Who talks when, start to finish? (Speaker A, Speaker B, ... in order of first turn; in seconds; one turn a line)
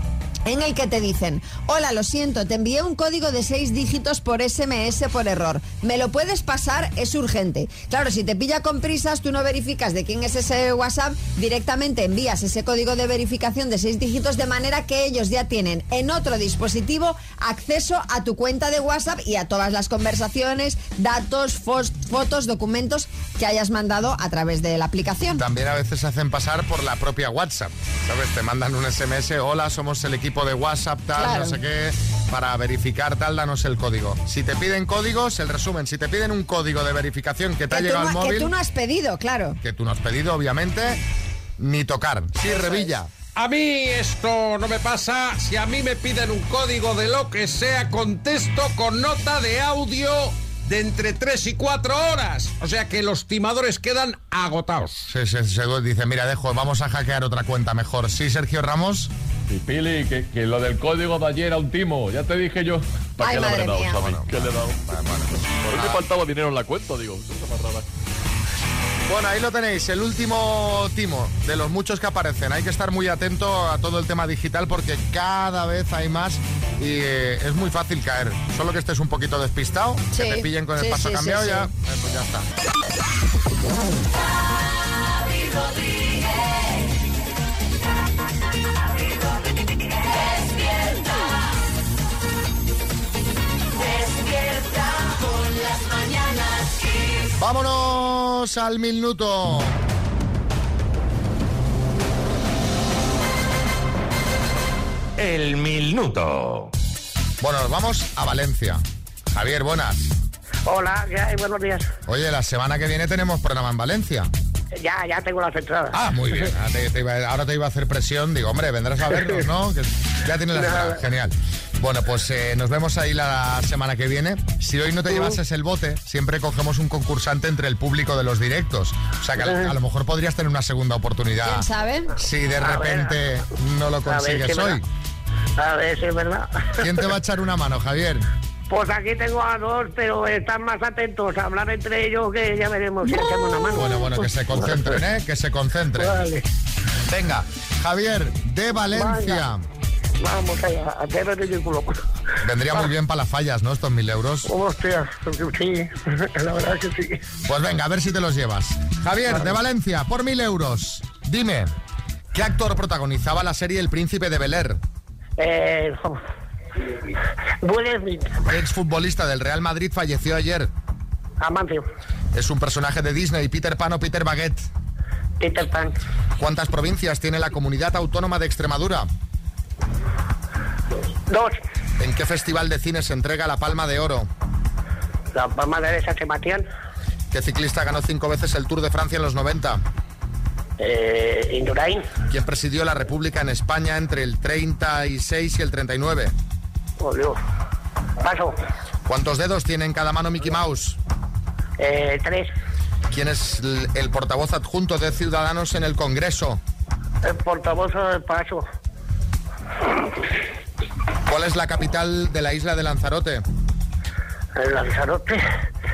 Speaker A: 0.5-25.4
Speaker B: 25.4-38.5
Speaker A: 31.2-31.6
Speaker A: 37.7-39.6
Speaker B: 39.6-41.0
Speaker B: 41.6-43.1
Speaker A: 42.5-42.8
Speaker C: 43.3-55.1
Speaker B: 55.1-59.1
Speaker D: 59.5-64.8
Speaker A: 63.2-64.0
Speaker B: 64.0-66.0
Speaker D: 65.5-67.8
Speaker B: 69.1-82.5
Speaker A: 80.1-81.7
Speaker B: 97.4-99.8
Speaker C: 105.2-106.7
Speaker B: 107.4-110.1
Speaker E: 110.7-111.9
Speaker B: 112.1-114.3
Speaker E: 114.8-116.0
Speaker B: 115.9-131.7
Speaker E: 119.1-119.4
Speaker E: 120.5-121.0
Speaker E: 125.1-125.4
Speaker E: 129.4-129.7
Speaker A: 131.4-132.1
Speaker B: 132.2-134.8
Speaker E: 132.6-133.2
Speaker E: 134.0-134.8
Speaker E: 135.6-137.0
Speaker B: 136.8-138.3
Speaker E: 138.7-145.0
Speaker B: 143.7-146.2
Speaker E: 146.0-146.4
Speaker B: 147.1-149.6
Speaker E: 148.9-149.4
Speaker E: 150.2-152.0
Speaker B: 152.4-154.5
Speaker E: 154.4-157.2
Speaker B: 157.4-161.7
Speaker E: 159.3-159.5
Speaker B: 162.3-164.8
Speaker E: 165.4-166.2
Speaker E: 167.6-168.3
Speaker B: 168.5-170.7
Speaker E: 171.4-171.8
Speaker B: 172.3-174.7
Speaker E: 175.4-175.9
Speaker B: 176.4-179.1
Speaker E: 181.3-181.6
Speaker B: 182.0-184.3
Speaker E: 185.3-186.7
Speaker B: 187.3-189.8
Speaker E: 190.8-192.0
Speaker B: 192.3-196.3
Speaker E: 197.0-197.4
Speaker E: 198.2-198.5
Speaker B: 199.1-201.0
Speaker E: 201.8-202.5
Speaker B: 203.1-206.6
Speaker E: 207.2-208.6
Speaker B: 211.2-213.4
Speaker E: 214.6-215.4